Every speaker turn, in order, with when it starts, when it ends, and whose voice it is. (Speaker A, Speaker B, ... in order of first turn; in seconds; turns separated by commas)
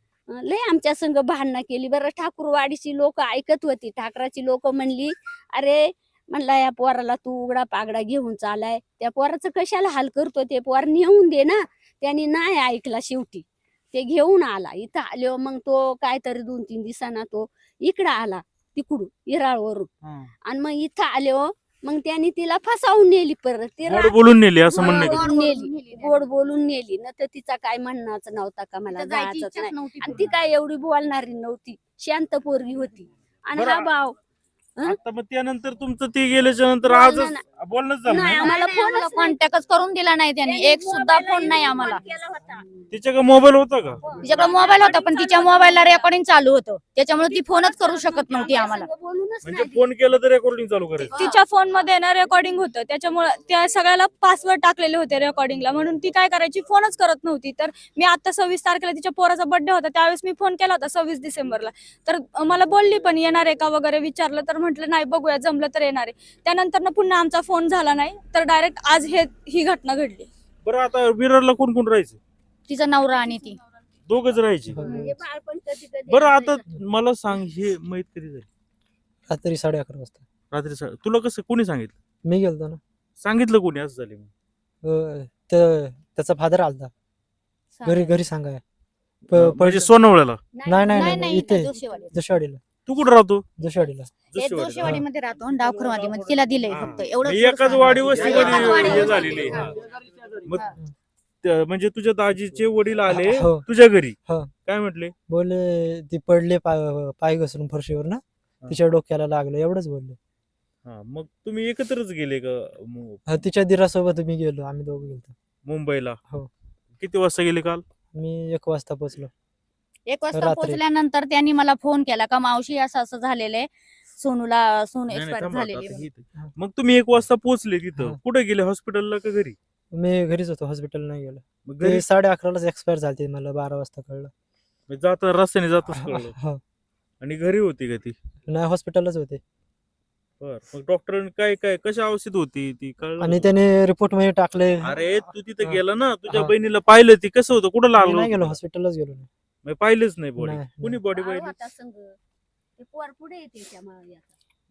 Speaker A: 0.3-19.9, Speaker B: 20.0-20.3, Speaker A: 20.4-34.2, Speaker B: 23.9-25.3, Speaker C: 24.7-26.2, Speaker C: 28.9-30.2, Speaker B: 30.0-30.4, Speaker B: 33.5-33.9, Speaker B: 34.8-38.5, Speaker A: 36.8-37.4, Speaker A: 38.0-39.4, Speaker C: 38.3-42.0, Speaker A: 40.4-42.6, Speaker B: 42.9-44.0, Speaker A: 44.0-45.0, Speaker C: 44.2-48.9, Speaker D: 44.3-46.0, Speaker A: 47.2-49.9, Speaker B: 49.4-51.1, Speaker C: 51.0-51.3, Speaker D: 51.1-70.3, Speaker B: 70.6-72.2, Speaker C: 72.7-73.6, Speaker B: 74.1-74.8, Speaker E: 74.7-75.1, Speaker A: 74.8-76.6, Speaker B: 76.1-78.5, Speaker E: 79.3-80.2, Speaker B: 80.5-81.9, Speaker E: 82.2-82.8, Speaker B: 83.2-84.3, Speaker E: 84.8-86.9, Speaker C: 87.8-88.2, Speaker E: 87.8-88.6, Speaker E: 89.3-89.9, Speaker B: 89.3-90.4, Speaker A: 90.5-92.1, Speaker E: 90.7-92.6, Speaker C: 90.9-92.1, Speaker B: 92.8-93.5, Speaker E: 93.6-94.1, Speaker B: 94.3-95.0, Speaker C: 94.3-99.7, Speaker B: 96.7-99.7, Speaker A: 98.2-99.4, Speaker B: 100.4-100.7, Speaker B: 101.4-105.1, Speaker E: 103.1-103.6, Speaker E: 104.2-104.5, Speaker E: 105.3-110.2, Speaker B: 110.8-113.2, Speaker E: 113.3-115.3, Speaker B: 115.6-116.2, Speaker B: 117.0-117.8, Speaker E: 118.1-119.3, Speaker C: 120.1-126.0, Speaker E: 120.3-120.8, Speaker B: 125.1-129.6, Speaker E: 129.9-134.3, Speaker B: 131.6-132.1, Speaker B: 134.9-136.3, Speaker E: 135.9-136.6, Speaker B: 137.2-138.2, Speaker E: 138.5-139.4, Speaker B: 140.4-143.5, Speaker E: 143.2-145.0, Speaker B: 144.8-148.6, Speaker E: 145.6-146.5, Speaker E: 147.9-149.3, Speaker B: 149.6-151.6, Speaker E: 150.4-151.0, Speaker A: 151.1-152.2, Speaker A: 152.8-154.4